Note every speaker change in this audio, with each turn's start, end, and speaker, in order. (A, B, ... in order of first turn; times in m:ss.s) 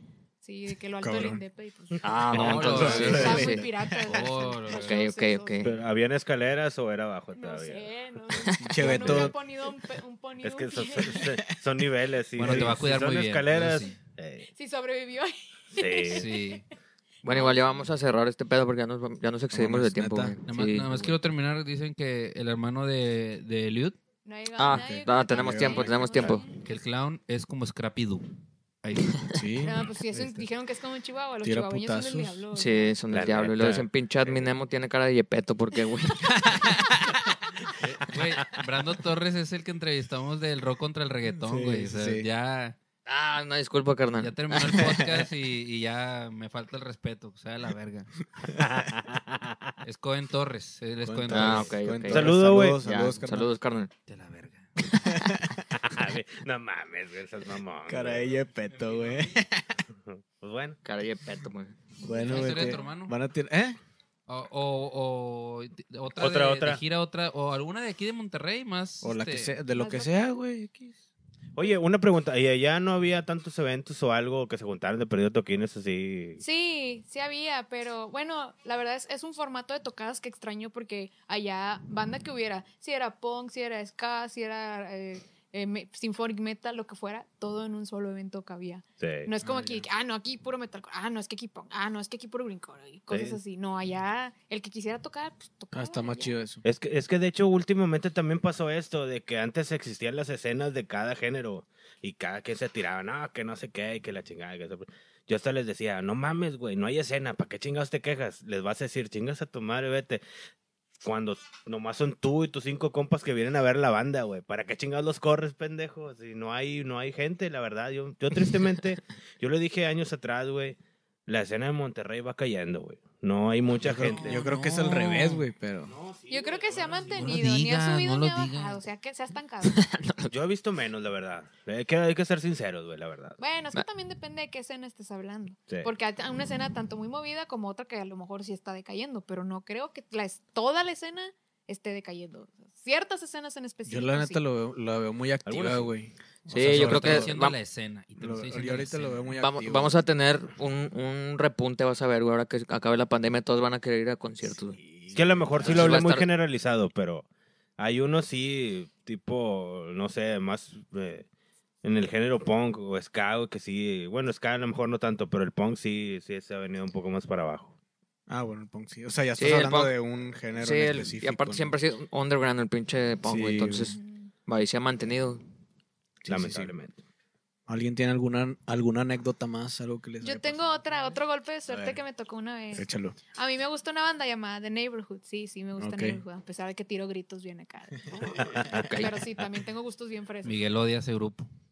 0:00.4-0:05.8 A
0:01.0-0:01.4 B
0:02.0-0:03.4 C
0:02.0-0:03.6 D
0:02.3-0:05.0 E
0:02.3-0:04.2 B
0:04.7-0:05.7 D
0:05.6-0:07.9 C
0:07.4-0:11.4 A
0:08.6-0:09.4 B
0:08.9-0:09.3 C
0:10.4-0:14.5 C
0:11.1-0:11.6 B
0:12.4-0:14.0 E
0:12.4-0:12.8 B
0:14.5-0:16.6 A
0:15.7-0:16.3 C
0:16.1-0:16.6 E
0:17.2-0:20.9 D
0:17.2-0:17.9 A
0:19.5-0:20.4 B
0:20.5-0:24.0 E
0:24.2-0:26.6 A
0:24.6-0:26.5 D
0:24.7-0:25.9 B
0:26.6-0:28.3 E
0:28.8-0:29.3 E
0:29.3-0:30.4 B
0:29.6-0:33.0 A
0:31.4-0:32.4 B
0:32.5-0:36.9 D
0:33.1-0:34.5 C
0:37.8-0:42.8 E
0:41.4-0:42.3 B
0:43.1-0:44.9 D
0:44.2-0:48.1 E
0:48.5-0:49.7 C
0:49.8-0:51.7 E
0:51.0-0:53.5 B
0:51.3-0:53.9 D
0:52.1-0:52.8 C
0:54.1-0:54.7 E
0:54.9-0:55.6 B
0:55.7-0:58.3 C
0:57.9-0:59.8 B
0:58.7-0:59.4 E
1:00.0-1:00.8 C
1:00.8-1:01.8 D
1:02.0-1:03.8 B
1:02.1-1:02.5 A
1:02.2-1:03.2 E
1:04.3-1:09.5 E
1:06.2-1:06.8 C
1:09.0-1:11.0 B
1:09.7-1:10.1 A
1:11.6-1:16.4 C
1:16.4-1:36.4 A
1:29.0-1:29.3 C
1:29.4-1:29.9 B
1:33.1-1:33.4 C
1:35.7-1:36.6 B
1:36.6-1:50.2 C
1:51.0-2:04.4 C
2:03.8-2:06.0 B
2:03.9-2:05.4 E
2:05.9-2:07.4 C
2:06.3-2:09.8 A
2:07.1-2:08.8 E
2:09.6-2:10.3 D
2:10.3-2:13.4 C
2:13.4-2:24.4 A
2:23.9-2:27.4 B
2:25.5-2:25.9 C
2:26.5-2:27.6 D
2:26.5-2:29.3 E
2:28.2-2:30.0 B
2:29.4-2:34.8 D
2:34.5-2:36.0 B
2:35.1-2:37.3 C
2:35.6-2:36.3 D
2:37.8-2:41.3 C
2:41.8-2:47.8 C
2:48.3-2:51.7 B
2:49.4-2:49.9 D
2:50.5-2:55.4 D
2:53.2-2:54.0 B
2:53.9-2:54.3 A
2:56.2-2:56.7 B
2:56.3-2:57.0 C
2:57.7-3:00.5 B
3:00.2-3:10.6 A
3:00.5-3:01.0 E
3:01.7-3:02.0 B
3:02.7-3:03.2 B
3:05.8-3:06.2 B
3:08.4-3:08.8 C
3:08.4-3:08.9 B
3:08.7-3:09.2 D
3:10.4-3:11.5 E